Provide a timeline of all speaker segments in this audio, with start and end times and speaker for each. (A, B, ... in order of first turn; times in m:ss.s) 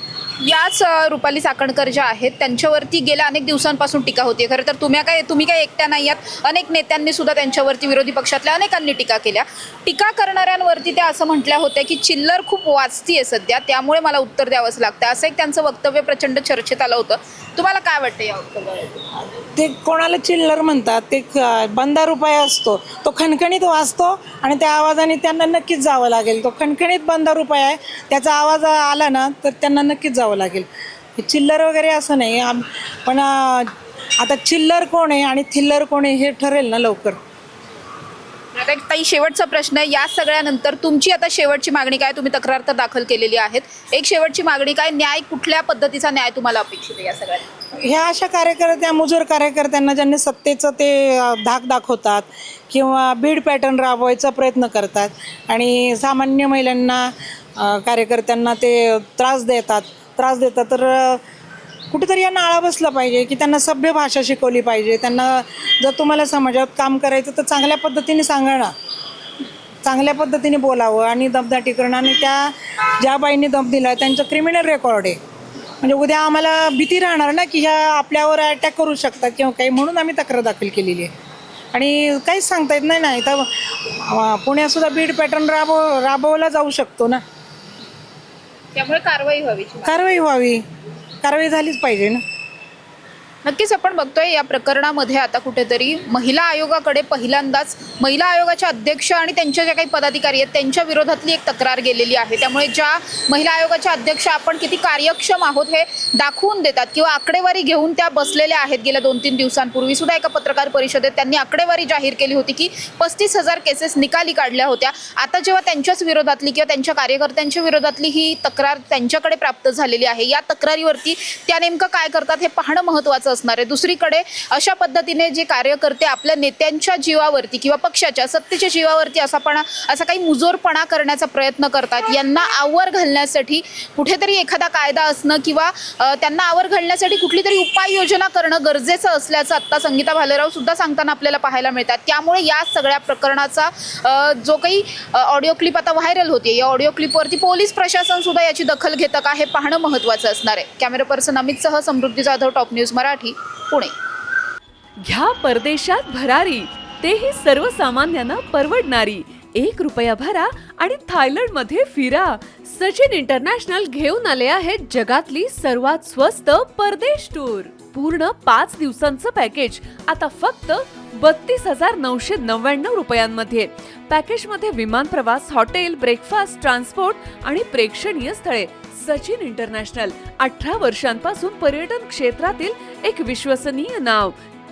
0:00.4-0:19.1 A
0:19.2-0:37.2 B
0:38.5-0:47.5 A
0:47.8-1:01.2 B
1:01.9-1:08.7 B
1:09.8-1:15.2 B
1:15.8-1:21.1 B
1:21.7-1:27.2 B
1:28.7-1:30.0 A
1:29.8-1:30.6 B
1:31.2-1:32.2 B
1:33.4-2:33.9 A
2:35.0-3:04.4 C